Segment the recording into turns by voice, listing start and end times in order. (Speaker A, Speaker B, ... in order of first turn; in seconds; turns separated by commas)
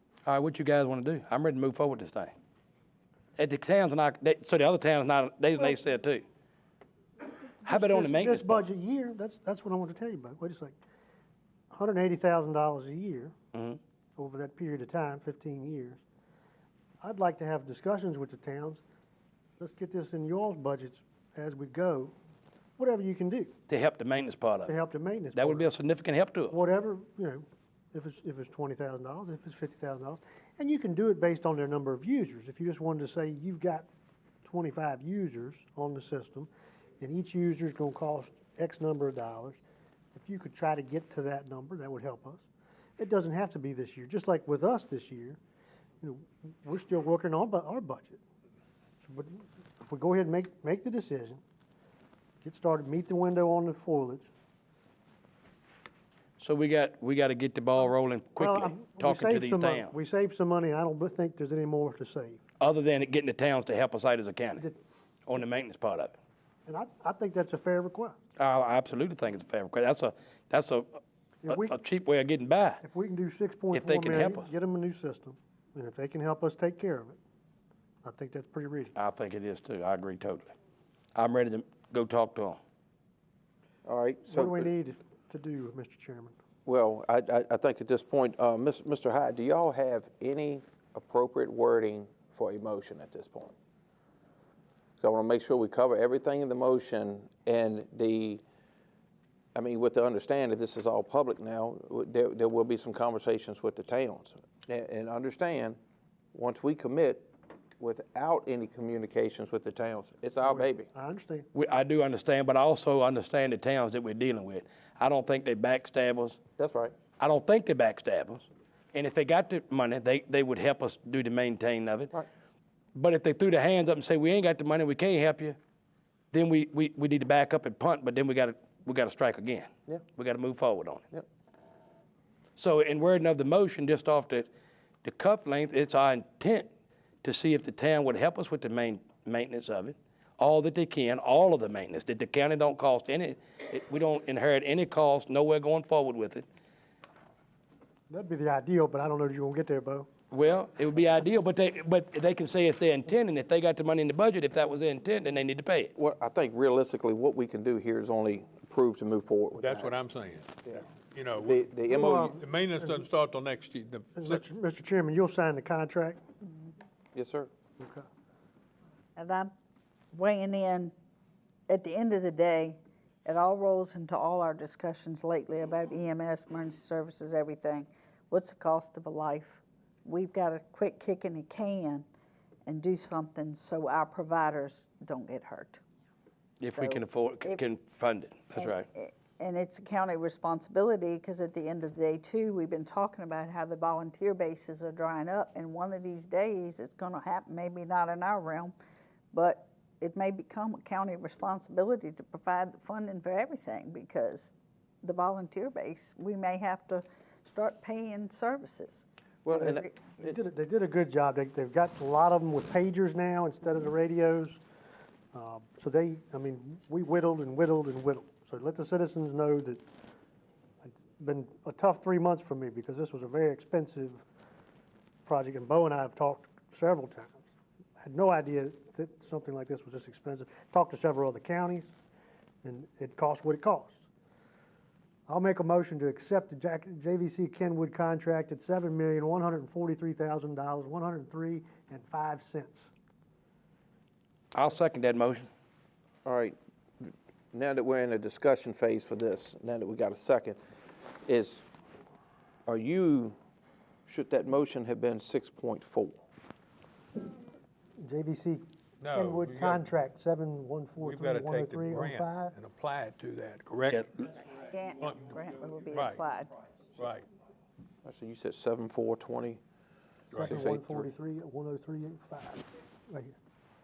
Speaker A: 0.2-2.3, Speaker A: 3.4-6.2, Speaker B: 7.6-10.8, Speaker A: 7.6-8.6, Speaker B: 11.7-13.3, Speaker A: 13.5-13.8, Speaker B: 14.2-16.0, Speaker B: 17.0-18.8, Speaker B: 19.6-22.1, Speaker B: 22.8-23.5, Speaker A: 23.7-24.8, Speaker B: 24.7-25.7, Speaker A: 25.3-26.5, Speaker B: 26.5-33.9, Speaker B: 34.4-39.6, Speaker B: 40.1-42.5, Speaker B: 43.0-45.4, Speaker B: 46.0-48.2, Speaker B: 49.0-51.4, Speaker B: 52.4-54.3, Speaker A: 56.4-59.9, Speaker B: 58.4-62.4, Speaker A: 62.6-64.7, Speaker A: 65.3-66.2, Speaker B: 66.7-68.2, Speaker A: 68.4-72.8, Speaker B: 71.4-71.7, Speaker B: 72.8-77.2, Speaker A: 73.7-74.5, Speaker B: 78.0-79.0, Speaker A: 79.0-80.5, Speaker A: 81.2-82.6, Speaker C: 83.9-84.7, Speaker B: 84.2-86.4, Speaker C: 86.7-93.5, Speaker C: 95.0-98.4, Speaker C: 99.5-105.8, Speaker C: 106.3-110.9, Speaker B: 110.4-111.5, Speaker A: 111.5-116.4, Speaker C: 116.6-117.0, Speaker A: 117.2-122.1, Speaker A: 122.9-125.6, Speaker A: 126.3-131.1, Speaker A: 132.6-134.5, Speaker A: 135.0-136.7, Speaker A: 137.2-146.5, Speaker B: 148.1-150.1, Speaker A: 150.3-155.9, Speaker C: 156.0-159.9, Speaker D: 159.6-164.4, Speaker C: 161.4-162.3, Speaker B: 161.9-163.0, Speaker B: 164.2-166.2, Speaker C: 167.1-167.5, Speaker B: 167.8-168.1, Speaker E: 169.2-169.5, Speaker E: 170.1-170.9, Speaker E: 171.7-182.1, Speaker E: 182.7-185.8, Speaker A: 186.6-188.8, Speaker E: 186.6-187.6, Speaker E: 188.6-198.7, Speaker E: 199.3-209.1, Speaker C: 209.4-210.4, Speaker B: 209.5-214.6, Speaker B: 215.3-219.8, Speaker B: 220.8-224.2, Speaker B: 225.2-227.4, Speaker B: 228.0-231.9, Speaker B: 232.6-234.1, Speaker B: 235.3-242.9, Speaker A: 244.5-245.5, Speaker C: 246.2-250.6, Speaker C: 251.3-251.6, Speaker C: 252.7-253.3, Speaker C: 254.1-256.2, Speaker B: 258.0-262.5, Speaker D: 259.0-259.9, Speaker D: 261.0-266.2, Speaker E: 264.6-266.5, Speaker D: 266.9-267.3, Speaker C: 268.0-269.6, Speaker D: 270.3-270.6, Speaker B: 270.3-273.3, Speaker C: 270.4-271.1